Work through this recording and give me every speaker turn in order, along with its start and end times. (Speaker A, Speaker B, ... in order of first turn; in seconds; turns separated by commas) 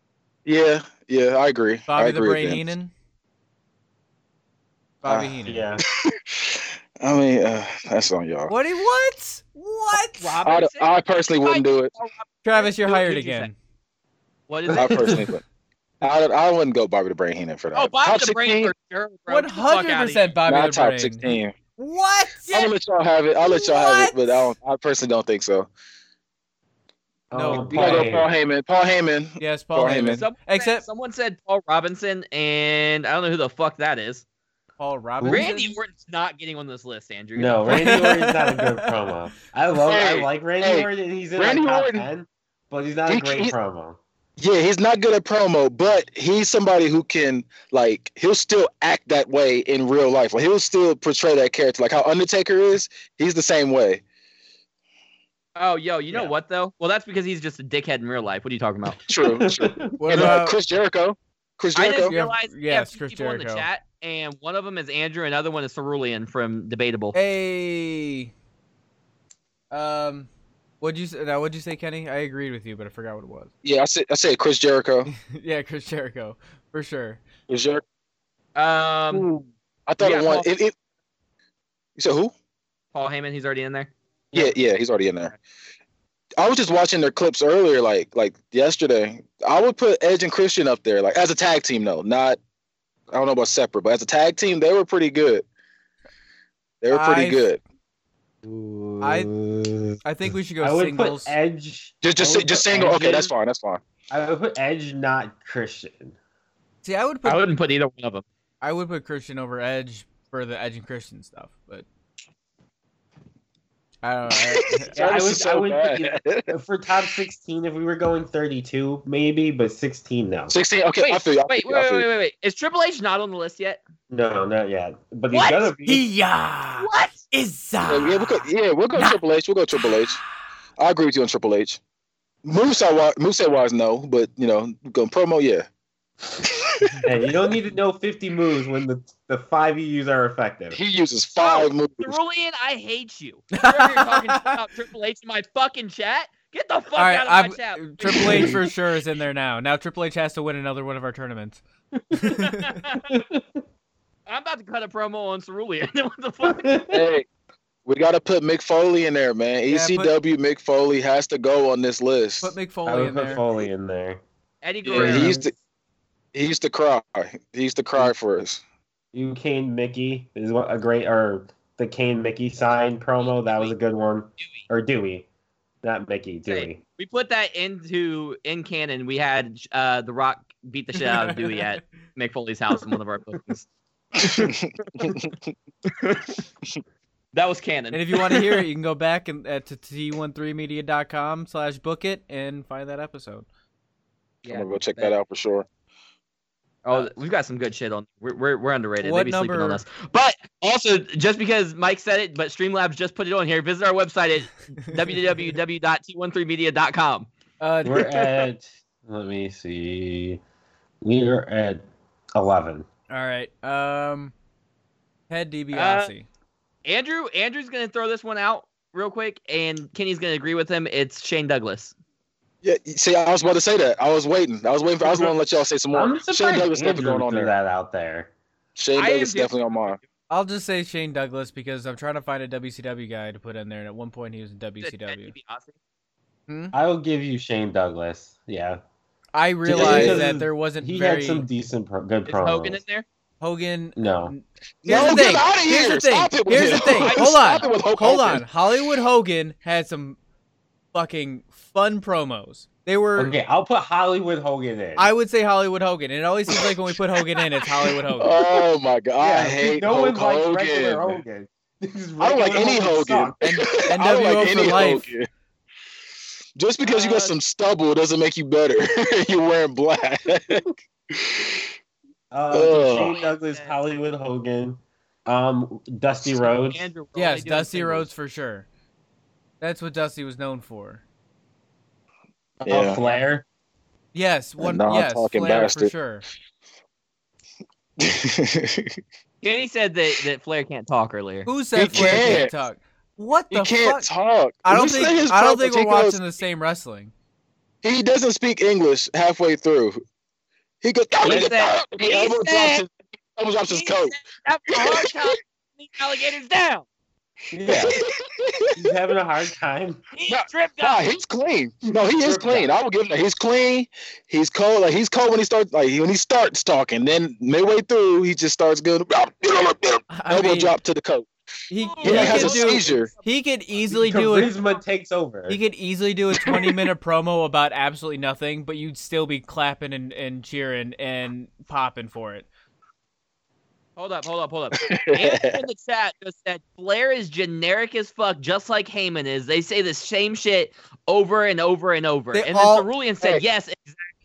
Speaker A: 0.5-2.6, Speaker B: 1.9-2.9, Speaker B: 5.0-5.7, Speaker A: 5.0-5.4, Speaker C: 5.5-5.8, Speaker A: 6.0-8.5, Speaker B: 8.5-10.4, Speaker D: 10.2-13.5, Speaker A: 10.4-11.9, Speaker B: 12.4-13.6, Speaker D: 14.5-15.2, Speaker B: 14.7-15.2, Speaker A: 14.7-15.4, Speaker A: 16.0-18.7, Speaker D: 17.7-20.3, Speaker B: 19.3-22.7, Speaker A: 20.5-21.6, Speaker A: 22.5-25.7, Speaker B: 23.4-24.5, Speaker C: 27.3-28.3, Speaker B: 27.3-28.1, Speaker A: 27.6-30.2, Speaker B: 29.4-30.8, Speaker D: 30.1-34.2, Speaker B: 34.8-35.8, Speaker C: 35.2-35.5, Speaker D: 35.3-38.0, Speaker C: 37.4-44.0, Speaker B: 37.7-38.9, Speaker A: 39.8-42.1, Speaker A: 43.1-43.5, Speaker A: 44.4-54.0, Speaker D: 55.6-59.0, Speaker A: 59.1-62.2, Speaker C: 59.2-60.4, Speaker B: 60.0-60.5, Speaker D: 61.8-67.2, Speaker B: 62.1-63.7, Speaker B: 67.1-68.3, Speaker B: 69.7-70.3, Speaker B: 70.8-73.5, Speaker A: 73.6-75.1, Speaker B: 75.1-77.2, Speaker A: 77.5-77.8, Speaker D: 78.6-79.3, Speaker A: 79.1-80.8, Speaker D: 80.0-80.5, Speaker A: 82.0-82.3, Speaker D: 82.9-83.9, Speaker A: 84.3-85.3, Speaker A: 86.4-92.4, Speaker A: 93.1-95.5, Speaker A: 96.8-97.6, Speaker B: 96.9-97.4, Speaker C: 98.4-100.0, Speaker B: 99.0-99.3, Speaker B: 100.0-101.3, Speaker C: 100.6-103.3, Speaker A: 102.0-103.8, Speaker C: 104.1-106.2, Speaker B: 106.8-107.5, Speaker D: 107.2-108.2, Speaker B: 108.6-111.8, Speaker B: 114.0-115.1, Speaker A: 114.3-116.5, Speaker C: 114.9-120.6, Speaker A: 120.5-122.0, Speaker D: 121.0-123.8, Speaker C: 124.1-126.1, Speaker D: 125.3-125.7, Speaker B: 125.8-129.2, Speaker D: 126.8-127.2, Speaker A: 127.9-130.2, Speaker B: 129.8-130.0, Speaker A: 130.8-131.8, Speaker A: 132.4-135.7, Speaker A: 136.4-137.0, Speaker C: 137.1-140.8, Speaker A: 140.7-142.2, Speaker D: 141.4-148.5, Speaker B: 143.5-144.6, Speaker B: 147.0-151.6, Speaker C: 148.0-148.7, Speaker B: 152.1-152.8, Speaker D: 152.2-153.1, Speaker C: 153.1-153.4, Speaker D: 154.3-156.8, Speaker C: 156.4-157.1, Speaker A: 156.9-157.3, Speaker A: 157.9-162.6, Speaker B: 159.7-160.1, Speaker B: 162.4-163.4, Speaker C: 162.9-164.2, Speaker D: 164.6-165.4, Speaker C: 164.9-165.5, Speaker A: 164.9-165.5, Speaker A: 166.3-168.6, Speaker C: 169.1-175.3, Speaker D: 173.2-173.7, Speaker C: 175.8-176.8, Speaker D: 176.5-183.7, Speaker B: 181.0-181.7, Speaker A: 184.2-185.5, Speaker D: 184.2-184.5, Speaker D: 185.9-186.3, Speaker D: 187.3-188.5, Speaker B: 187.9-193.5, Speaker D: 194.4-195.2, Speaker A: 194.5-195.7, Speaker D: 196.8-207.3, Speaker B: 199.0-199.8, Speaker B: 207.6-208.3, Speaker C: 207.8-210.4, Speaker C: 211.0-211.8, Speaker C: 212.3-212.9, Speaker B: 213.1-214.3, Speaker B: 215.3-216.3, Speaker D: 215.7-216.1, Speaker D: 216.8-221.9, Speaker A: 222.6-227.5, Speaker C: 225.9-228.3, Speaker A: 228.8-230.0, Speaker D: 229.0-229.5, Speaker B: 230.3-235.3, Speaker D: 234.8-235.7, Speaker B: 236.5-236.8, Speaker C: 236.7-238.8, Speaker B: 239.3-241.5, Speaker C: 239.7-242.8, Speaker A: 239.7-240.3, Speaker D: 242.3-243.1, Speaker B: 243.4-250.2, Speaker C: 244.0-244.3, Speaker A: 244.8-248.5, Speaker C: 244.9-245.2, Speaker D: 247.0-247.9, Speaker B: 250.9-253.3, Speaker C: 253.2-255.1, Speaker B: 255.0-258.4, Speaker A: 258.2-261.2, Speaker C: 259.2-263.4, Speaker A: 262.2-265.3, Speaker B: 263.4-265.1, Speaker A: 266.6-271.7, Speaker D: 266.8-267.4, Speaker C: 272.3-276.8, Speaker A: 272.5-273.2, Speaker D: 272.6-273.8, Speaker D: 276.7-278.1, Speaker B: 277.2-278.7, Speaker B: 279.6-281.0, Speaker C: 282.6-283.4, Speaker A: 282.6-283.0, Speaker B: 284.1-286.2, Speaker A: 284.6-285.9, Speaker A: 288.0-289.0, Speaker D: 289.4-291.5, Speaker B: 291.5-294.1, Speaker A: 291.8-292.5, Speaker C: 291.9-292.4, Speaker A: 293.5-296.2, Speaker B: 294.6-297.1, Speaker A: 297.8-300.0, Speaker A: 300.8-304.2, Speaker D: 301.2-302.9, Speaker C: 301.3-301.5, Speaker D: 303.7-306.9, Speaker A: 304.7-305.3, Speaker C: 307.5-308.0, Speaker A: 307.7-308.9, Speaker C: 308.8-310.0, Speaker D: 310.1-311.0, Speaker A: 310.3-321.3, Speaker C: 311.9-312.7, Speaker B: 320.1-320.7, Speaker B: 321.7-324.6, Speaker D: 321.8-323.3, Speaker A: 322.0-323.1, Speaker C: 323.9-325.6, Speaker B: 325.5-332.5, Speaker A: 326.4-326.9, Speaker D: 334.0-344.1, Speaker A: 334.8-335.6, Speaker B: 342.3-342.9